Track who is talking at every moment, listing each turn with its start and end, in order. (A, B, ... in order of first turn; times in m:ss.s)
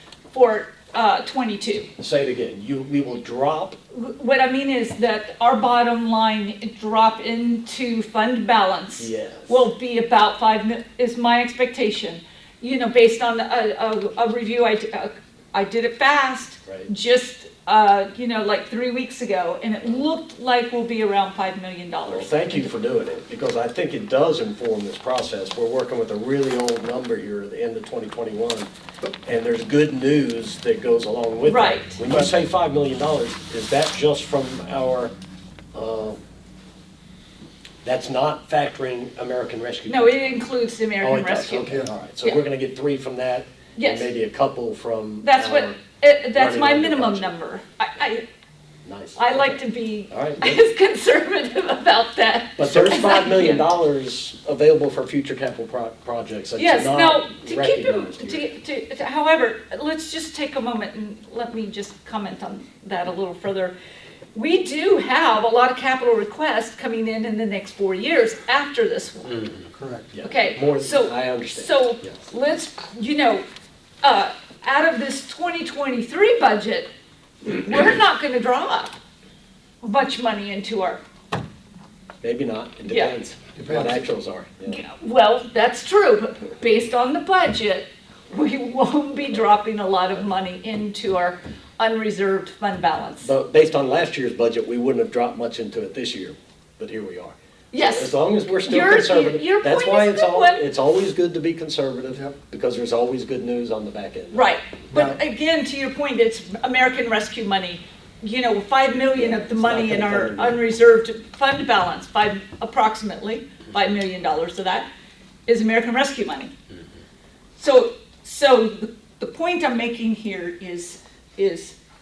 0:00.3-0:01.9 A
0:02.0-0:03.8 B
0:03.9-0:22.5 A
0:09.0-0:09.6 B
0:22.1-0:28.7 B
0:29.2-0:35.1 B
0:31.4-0:32.0 A
0:35.7-0:36.2 B
0:37.8-0:40.4 B
0:39.9-0:42.4 A
0:41.0-0:47.3 B
0:41.6-0:41.9 C
0:43.8-0:44.1 A
0:45.2-0:48.2 A
0:48.8-0:49.6 B
0:49.2-0:53.7 A
0:50.1-0:50.6 B
0:52.6-0:58.5 B
0:56.6-1:03.7 A
1:04.3-1:09.5 A
1:09.7-1:10.1 C
1:10.1-1:12.1 B
1:10.2-1:13.4 A
1:14.0-1:16.9 A
1:17.4-1:19.0 A
1:19.8-1:21.0 A
1:22.2-1:24.8 B
1:22.9-1:23.1 A
1:23.5-1:24.1 C
1:24.6-1:33.3 A
1:33.2-1:44.5 B
1:37.7-1:40.6 A
1:42.1-1:42.4 C
1:44.3-1:54.8 A
1:44.9-1:45.2 C
1:49.0-1:50.6 B
1:55.4-1:56.5 A
1:57.6-2:01.8 A